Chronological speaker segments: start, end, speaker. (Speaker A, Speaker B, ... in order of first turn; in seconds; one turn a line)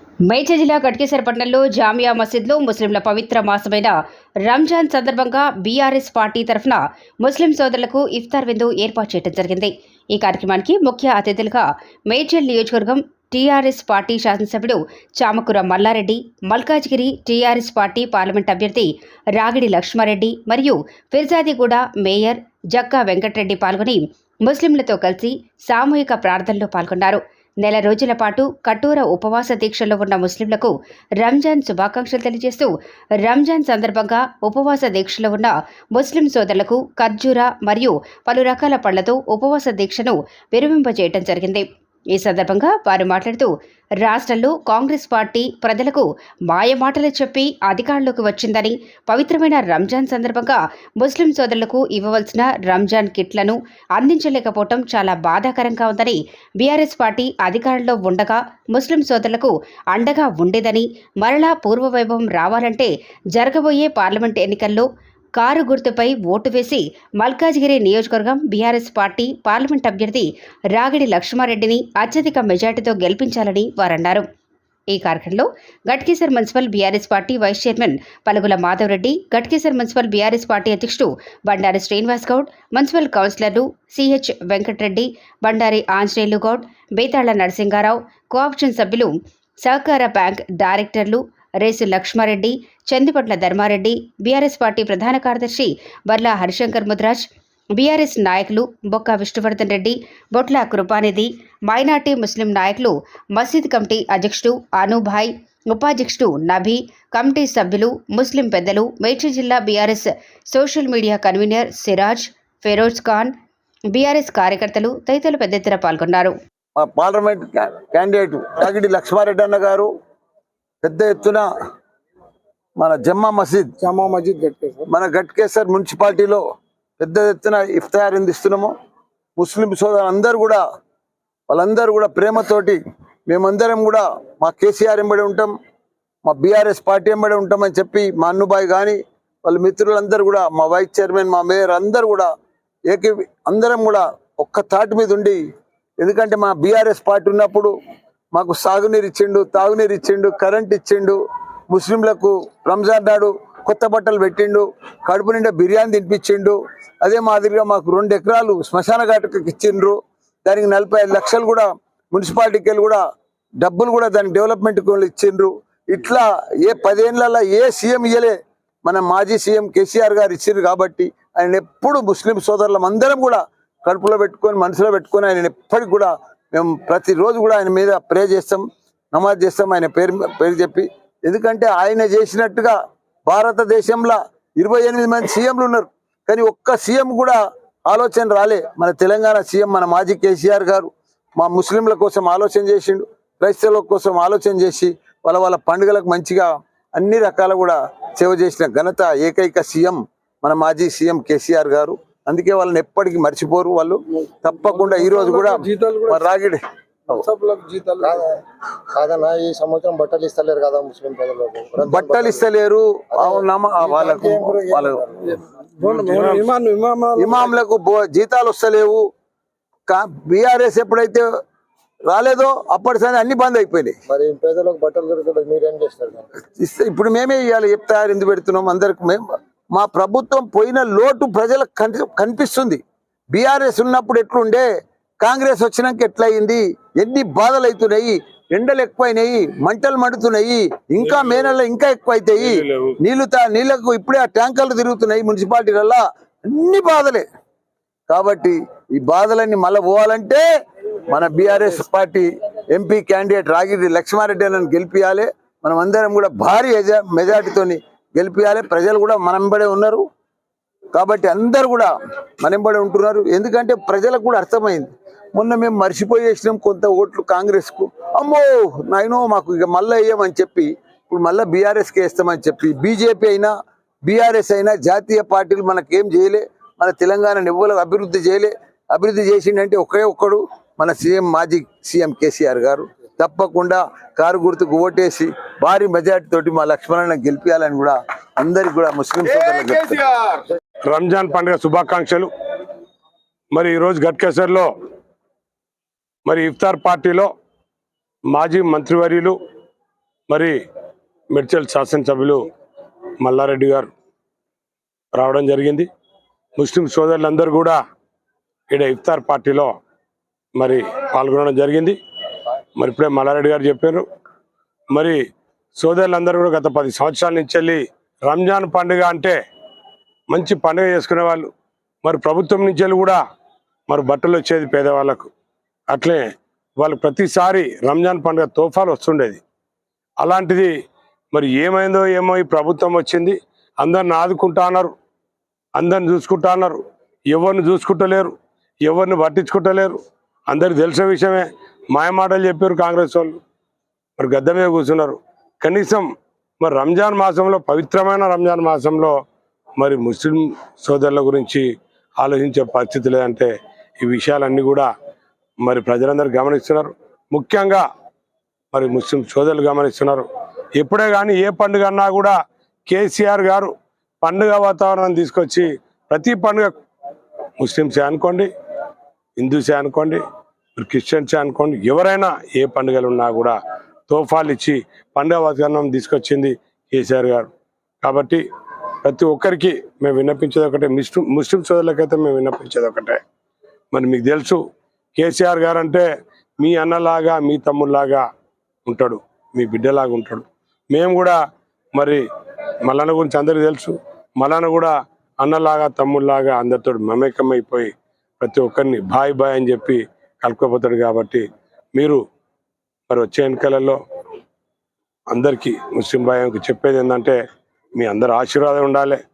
Speaker A: 0.3-3.9
Speaker A: 4.5-32.7
Speaker A: 33.2-43.5
Speaker A: 44.0-74.2
Speaker A: 74.9-89.1
Speaker A: 89.6-97.2
Speaker A: 97.8-113.3
Speaker A: 113.9-116.3
Speaker B: 116.8-119.9
Speaker B: 120.8-121.5
Speaker B: 122.8-123.7
Speaker C: 123.8-124.9
Speaker B: 124.9-126.4
Speaker B: 127.0-128.7
Speaker B: 129.4-130.6
Speaker B: 131.5-135.5
Speaker B: 136.2-142.3
Speaker B: 142.9-145.4
Speaker B: 146.0-147.7
Speaker B: 148.3-151.2
Speaker B: 151.7-163.0
Speaker B: 163.6-207.2
Speaker C: 204.4-206.3
Speaker C: 207.1-208.2
Speaker D: 208.0-208.4
Speaker D: 208.9-212.4
Speaker B: 211.9-215.0
Speaker D: 213.2-215.2
Speaker C: 215.3-217.5
Speaker E: 215.8-216.5
Speaker B: 217.2-219.0
Speaker B: 219.9-221.2
Speaker B: 222.1-223.9
Speaker D: 224.1-226.3
Speaker B: 226.6-232.8
Speaker B: 233.3-234.7
Speaker B: 235.2-247.2
Speaker E: 241.0-241.4
Speaker E: 242.4-242.9
Speaker B: 248.1-250.4
Speaker B: 251.1-260.0
Speaker B: 260.9-261.9
Speaker B: 262.4-273.5
Speaker B: 274.0-290.0
Speaker E: 290.9-292.3
Speaker E: 293.5-294.7
Speaker E: 296.2-297.3
Speaker E: 298.3-299.4
Speaker E: 300.3-300.5
Speaker E: 301.3-302.4
Speaker E: 303.2-303.9
Speaker E: 305.1-305.9
Speaker E: 306.6-307.8
Speaker E: 308.7-309.7
Speaker E: 310.6-312.0
Speaker E: 312.8-314.0
Speaker E: 314.9-315.2
Speaker E: 315.8-319.4
Speaker E: 320.3-321.5
Speaker E: 322.0-323.2
Speaker E: 323.9-325.3
Speaker E: 325.9-326.2
Speaker E: 326.8-329.4
Speaker E: 330.2-330.7
Speaker E: 331.3-334.9
Speaker E: 335.8-338.3
Speaker E: 338.8-340.0
Speaker E: 340.5-343.4
Speaker E: 344.2-346.1
Speaker E: 346.6-349.1
Speaker E: 349.8-351.6
Speaker E: 352.2-354.9
Speaker E: 355.6-357.8
Speaker E: 358.7-360.2
Speaker E: 360.8-362.4
Speaker E: 362.9-366.7
Speaker E: 367.6-368.5
Speaker E: 369.4-370.2
Speaker E: 370.8-373.6
Speaker E: 374.1-377.5
Speaker E: 378.0-378.4
Speaker E: 379.0-383.2
Speaker E: 383.9-384.6
Speaker E: 385.1-386.0
Speaker E: 386.6-388.2
Speaker E: 388.9-391.4
Speaker E: 391.9-392.2
Speaker E: 392.9-402.2
Speaker E: 403.1-404.0
Speaker E: 405.3-407.4
Speaker E: 408.0-409.2